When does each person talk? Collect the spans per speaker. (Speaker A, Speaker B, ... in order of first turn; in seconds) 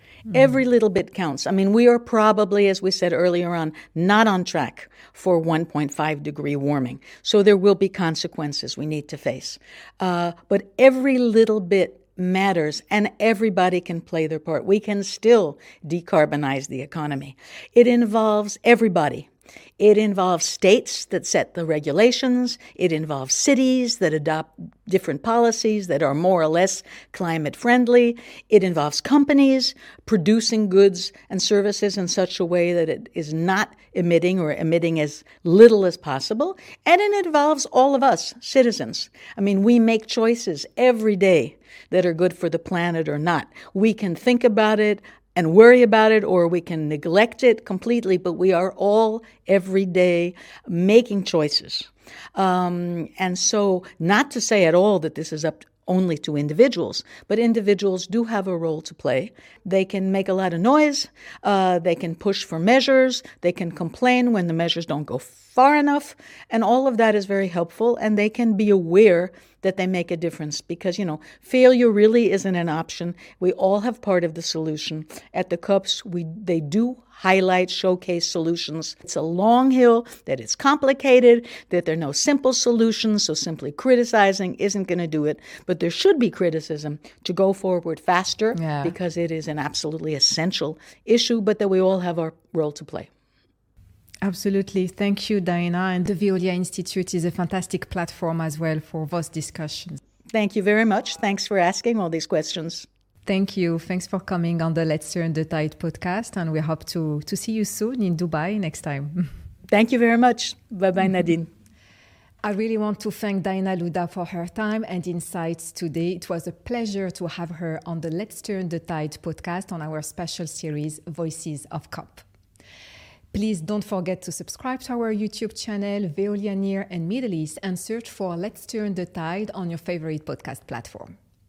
Speaker A: 0.3-93.1, 100.3-102.9, 109.7-111.5
Speaker B: 88.5-88.9, 94.2-100.0, 103.2-109.3, 112.4-122.2, 123.3-131.1